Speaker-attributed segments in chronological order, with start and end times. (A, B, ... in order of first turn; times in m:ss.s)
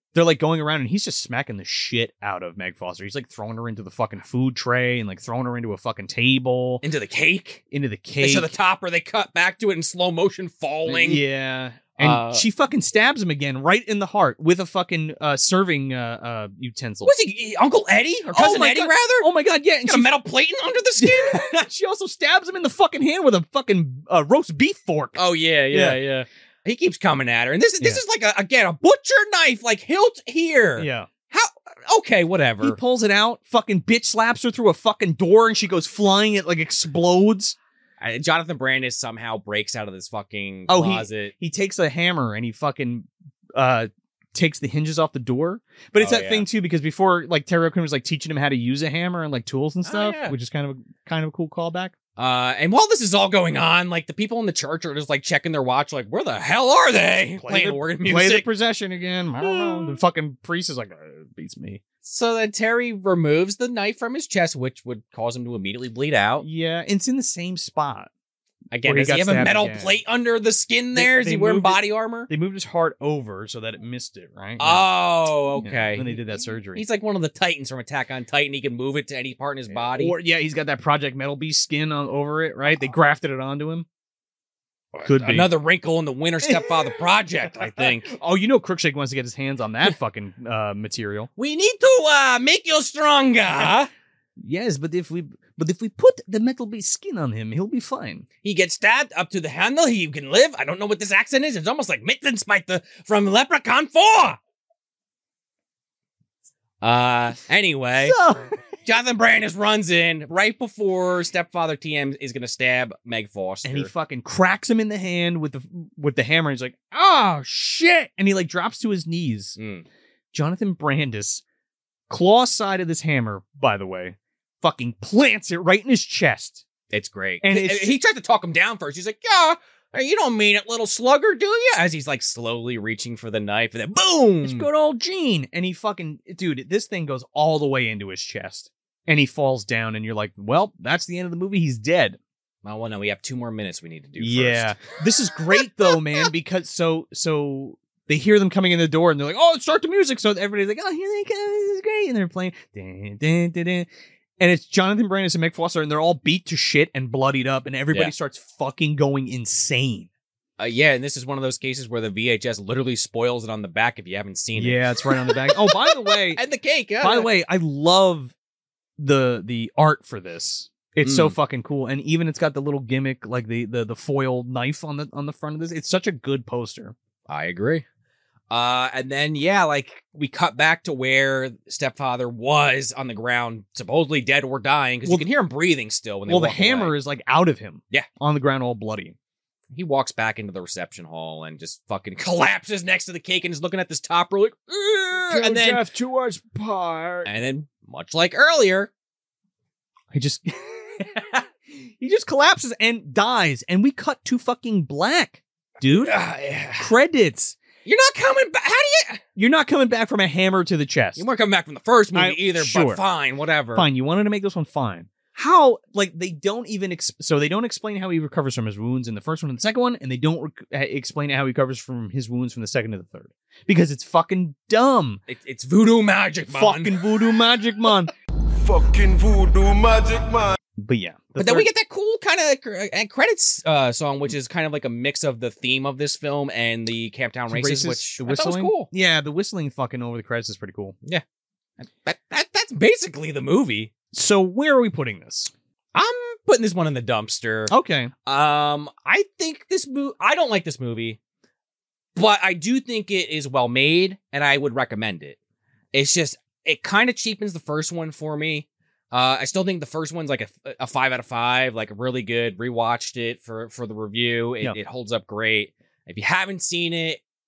0:00.1-0:06.8 A
0:06.8-0:07.6 B
0:07.7-0:08.5 A
0:08.2-0:11.2 B
0:10.9-0:17.1 A
0:12.0-0:12.4 B
0:17.0-0:19.3 B
0:18.3-0:20.1 A
0:19.8-0:21.6 B
0:21.0-0:26.0 A
0:25.2-0:32.8 B
0:30.8-0:31.1 A
0:32.6-0:37.6 A
0:38.0-0:41.3 B
0:40.7-0:51.9 A
0:46.0-0:46.5 B
0:49.8-0:50.4 B
0:52.2-0:58.5 B
0:57.4-1:01.8 A
0:59.4-1:00.0 B
1:02.0-1:06.4 B
1:06.4-1:08.1 A
1:08.7-1:12.3 B
1:08.8-1:09.9 A
1:11.0-1:14.9 A
1:14.6-1:16.2 B
1:15.6-1:16.8 A
1:16.7-1:20.2 B
1:19.8-1:23.9 A
1:25.0-1:28.1 B
1:25.0-1:25.5 A
1:26.4-1:26.8 A
1:27.8-1:31.3 A
1:31.4-1:33.9 B
1:34.4-1:38.3 A
1:38.4-1:44.4 B
1:46.8-1:48.2 B
1:48.0-1:48.5 A
1:48.8-1:53.9 B
1:53.6-1:59.6 A
1:59.6-1:59.8 B
2:00.3-2:01.4 A
2:02.1-2:06.6 A
2:06.9-2:14.7 B
2:07.4-2:08.0 A
2:14.4-2:22.2 A
2:22.6-2:24.8 B
2:24.2-2:33.9 A
2:34.4-2:40.1 A
2:40.6-2:47.3 B
2:44.6-2:46.4 A
2:47.0-2:48.3 A
2:49.0-2:57.0 A
2:51.0-2:51.4 B
2:57.3-2:57.8 B
2:58.5-3:06.9 B
3:06.3-3:09.2 A
3:09.7-3:15.9 B
3:15.1-3:17.3 A
3:17.2-3:18.9 B
3:20.1-3:26.2 A
3:25.8-3:26.9 B
3:26.8-3:27.6 A
3:27.8-3:29.2 B
3:29.4-3:31.2 A
3:31.2-3:33.9 B
3:32.2-3:33.0 A
3:33.7-3:45.2 A
3:45.3-3:47.0 B
3:46.5-3:48.1 A
3:48.6-3:50.6 C
3:50.8-3:51.7 A
3:51.4-3:58.9 B
3:57.5-4:01.0 A
4:01.8-4:03.9 B
4:04.1-4:05.5 A
4:05.9-4:07.7 B
4:07.7-4:08.1 A
4:08.2-4:11.2 B
4:12.2-4:15.4 B
4:15.9-4:27.2 B